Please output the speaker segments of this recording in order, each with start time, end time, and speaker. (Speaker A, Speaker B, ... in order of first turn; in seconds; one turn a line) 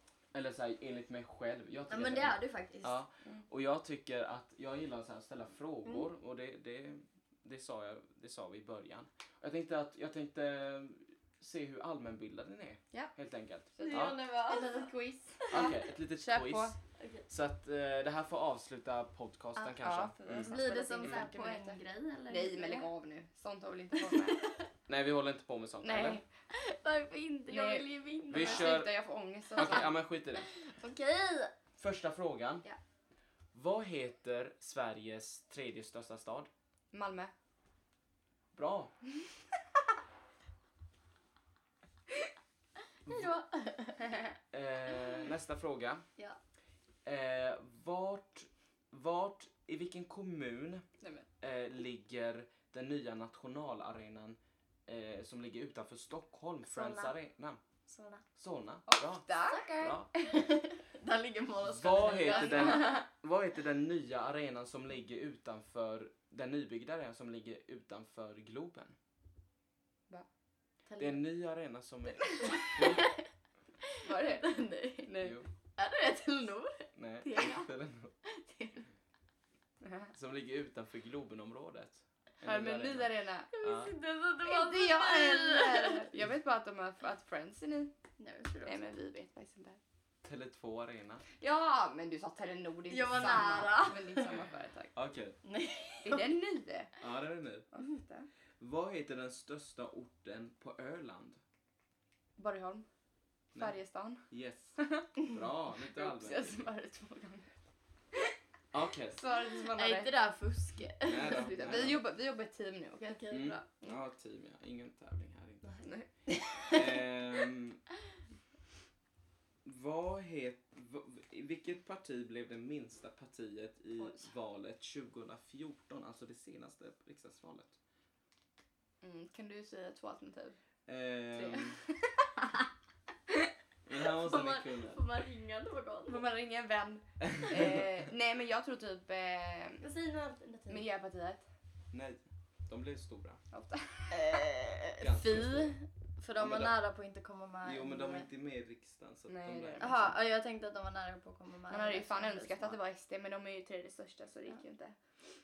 Speaker A: 0.3-14.2
Speaker B: 1.9-3.0
Speaker C: 13.8-16.8
Speaker B: 13.8-14.9
Speaker B: 15.4-15.7
Speaker A: 15.5-16.8
Speaker B: 17.0-17.2
Speaker A: 17.3-21.2
Speaker C: 19.8-24.5
Speaker B: 20.4-22.9
Speaker B: 24.1-24.5
Speaker A: 24.9-26.2
Speaker C: 25.8-26.2
Speaker B: 26.5-28.8
Speaker C: 27.5-29.9
Speaker A: 28.3-28.9
Speaker A: 29.6-30.5
Speaker B: 30.4-31.5
Speaker A: 31.8-32.6
Speaker A: 33.5-36.5
Speaker C: 36.9-37.3
Speaker A: 38.5-38.9
Speaker B: 43.1-44.2
Speaker A: 44.5-46.0
Speaker A: 47.0-50.9
Speaker C: 51.0-51.3
Speaker A: 51.4-57.6
Speaker B: 56.7-57.1
Speaker B: 57.9-58.2
Speaker A: 58.4-60.1
Speaker C: 58.9-60.3
Speaker B: 59.4-63.0
Speaker A: 61.6-69.0
Speaker C: 62.0-62.9
Speaker B: 70.9-71.2
Speaker A: 71.0-73.1
Speaker B: 72.4-73.3
Speaker B: 73.8-75.1
Speaker C: 74.0-75.4
Speaker A: 75.2-75.5
Speaker B: 75.8-77.7
Speaker A: 77.0-78.1
Speaker B: 78.2-78.9
Speaker C: 79.8-80.1
Speaker A: 80.1-83.1
Speaker C: 82.4-83.5
Speaker B: 83.5-86.1
Speaker A: 83.6-83.9
Speaker C: 84.5-87.9
Speaker B: 88.2-88.8
Speaker C: 88.7-89.8
Speaker A: 90.2-91.2
Speaker C: 91.4-94.9
Speaker B: 92.9-94.3
Speaker A: 95.0-95.4
Speaker B: 95.4-96.3
Speaker C: 96.0-96.9
Speaker A: 97.0-97.7
Speaker C: 97.7-98.3
Speaker A: 98.6-101.4
Speaker C: 102.4-102.9
Speaker C: 103.5-107.5
Speaker A: 104.3-106.6
Speaker A: 108.7-109.2
Speaker C: 109.2-110.1
Speaker B: 109.7-111.5
Speaker A: 111.0-112.0
Speaker C: 111.2-113.2
Speaker B: 113.0-113.7
Speaker A: 113.3-115.8
Speaker B: 115.6-116.8
Speaker C: 115.8-116.1
Speaker A: 116.7-117.8
Speaker A: 119.7-127.8
Speaker C: 129.0-130.6
Speaker A: 130.9-131.8
Speaker C: 131.3-132.3
Speaker A: 133.9-135.0
Speaker B: 134.2-136.3
Speaker C: 136.1-139.8
Speaker A: 137.2-138.0
Speaker B: 139.8-140.9
Speaker C: 140.7-141.4
Speaker A: 141.9-143.4
Speaker C: 143.5-144.4
Speaker B: 144.1-148.3
Speaker A: 145.0-145.8
Speaker A: 146.4-146.8
Speaker A: 147.6-150.1
Speaker C: 149.3-150.1
Speaker B: 149.8-152.8
Speaker C: 151.7-155.0